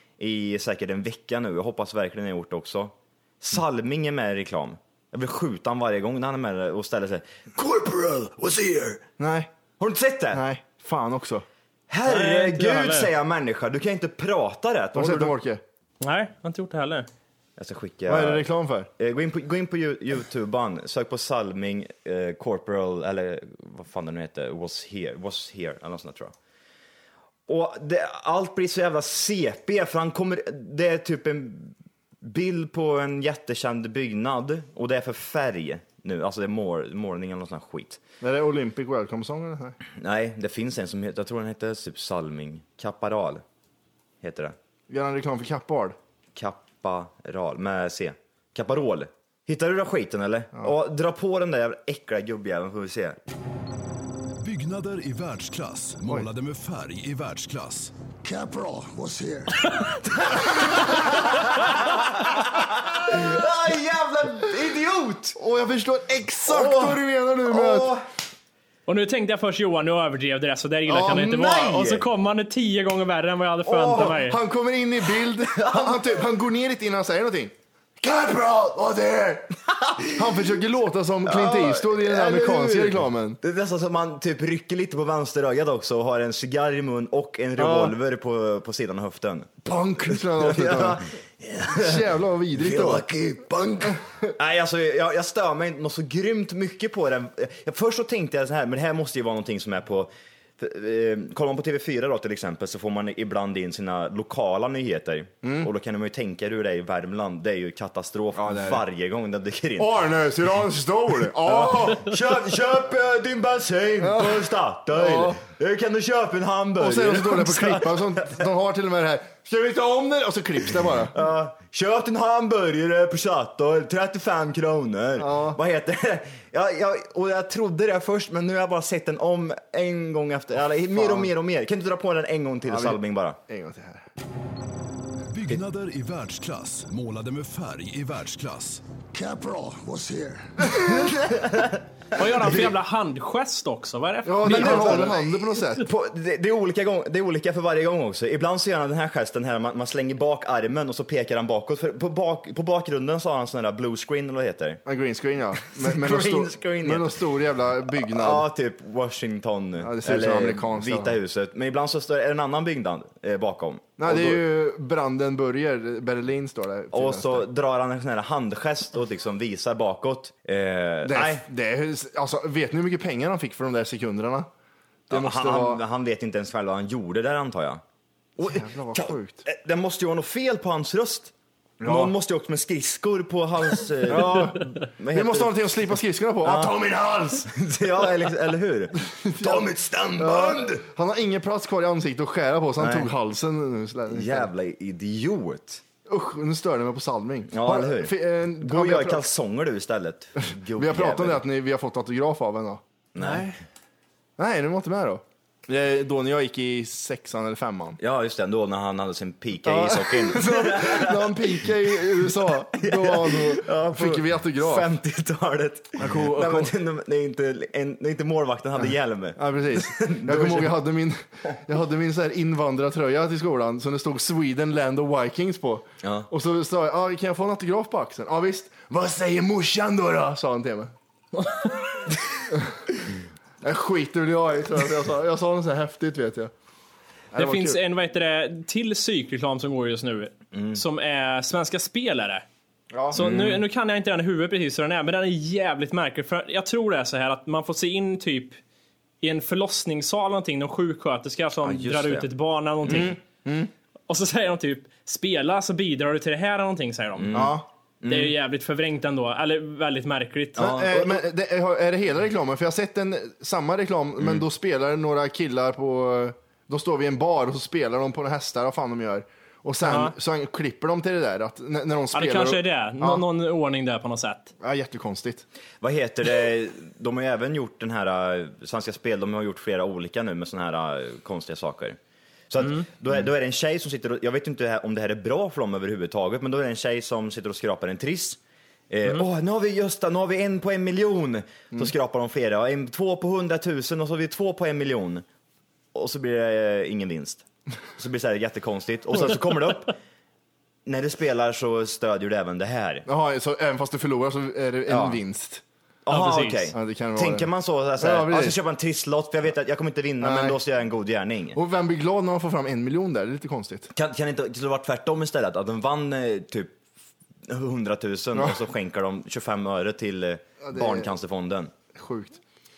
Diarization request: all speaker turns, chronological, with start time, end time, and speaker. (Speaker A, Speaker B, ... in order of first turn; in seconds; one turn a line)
Speaker A: 0.2-9.0
Speaker B: 9.2-9.5
Speaker A: 9.8-10.4
Speaker B: 10.3-11.4
Speaker A: 11.9-15.3
Speaker C: 12.1-13.1
Speaker B: 14.9-15.6
Speaker C: 16.0-17.1
Speaker A: 17.6-18.5
Speaker B: 18.1-18.9
Speaker A: 19.0-26.3
Speaker A: 27.5-38.0
Speaker B: 38.2-39.8
Speaker A: 40.0-43.4
Speaker A: 44.2-44.5
Speaker B: 44.9-46.0
Speaker A: 46.3-53.2
Speaker D: 54.4-59.6
Speaker A: 59.7-65.4
Speaker B: 65.3-67.9
Speaker A: 66.4-68.0
Speaker C: 68.9-74.4
Speaker B: 70.8-72.0
Speaker A: 73.7-74.1
Speaker B: 73.7-79.5
Speaker A: 75.3-76.2
Speaker A: 79.7-80.4
Speaker B: 80.1-83.4
Speaker A: 81.2-89.5
Speaker B: 87.6-87.9
Speaker B: 89.6-91.1
Speaker A: 90.1-109.9
Speaker B: 91.7-93.1
Speaker B: 93.8-94.3
Speaker B: 105.4-105.7
Speaker B: 108.3-108.8
Speaker B: 109.8-112.1
Speaker A: 111.5-118.4
Speaker B: 114.0-115.4
Speaker B: 116.8-121.2
Speaker A: 121.1-133.4
Speaker B: 125.2-125.6
Speaker B: 130.9-131.3
Speaker B: 132.6-134.1
Speaker D: 135.3-140.7
Speaker A: 141.0-141.8
Speaker C: 142.2-145.1
Speaker B: 144.2-145.8
Speaker A: 144.4-145.2
Speaker A: 145.8-154.8
Speaker B: 154.8-158.4
Speaker A: 155.6-157.2
Speaker A: 158.0-164.4
Speaker B: 159.8-161.2
Speaker B: 164.0-167.5
Speaker A: 166.9-171.4
Speaker B: 171.0-174.5
Speaker B: 175.1-175.8
Speaker A: 175.1-177.8
Speaker A: 178.4-185.8
Speaker B: 178.4-179.4
Speaker B: 181.8-182.1
Speaker B: 184.0-186.9
Speaker A: 186.4-190.8
Speaker B: 189.0-194.5
Speaker A: 192.8-193.1
Speaker A: 194.1-195.8
Speaker B: 196.1-199.2
Speaker A: 197.5-201.4
Speaker B: 200.8-203.5
Speaker A: 203.1-203.6
Speaker B: 204.4-208.0
Speaker A: 208.0-220.8
Speaker B: 209.6-214.9
Speaker B: 216.0-216.7
Speaker B: 219.4-230.9
Speaker A: 226.0-226.3
Speaker B: 232.5-232.8
Speaker B: 233.6-236.5
Speaker B: 237.3-237.8
Speaker C: 237.4-242.4
Speaker A: 240.5-240.8
Speaker B: 242.9-243.3
Speaker C: 243.1-248.6
Speaker A: 243.1-243.6
Speaker C: 249.2-253.2
Speaker A: 251.6-252.3
Speaker B: 252.9-253.7
Speaker C: 254.1-257.5
Speaker A: 257.2-258.3
Speaker B: 257.3-257.6
Speaker C: 258.1-260.7
Speaker A: 260.6-261.2
Speaker B: 260.6-273.2
Speaker C: 269.8-270.1
Speaker C: 272.1-274.5
Speaker B: 274.6-275.4
Speaker A: 275.8-282.0
Speaker A: 282.5-288.4
Speaker A: 288.9-295.2
Speaker A: 295.9-297.4
Speaker A: 297.9-299.9
Speaker A: 300.9-303.1
Speaker B: 303.1-305.6
Speaker A: 304.9-305.2
Speaker A: 306.0-311.6
Speaker C: 306.1-306.6
Speaker B: 306.7-308.6
Speaker B: 310.2-310.6
Speaker B: 311.5-313.9
Speaker A: 313.9-316.8
Speaker A: 317.5-321.7
Speaker B: 320.6-321.1
Speaker B: 321.9-322.4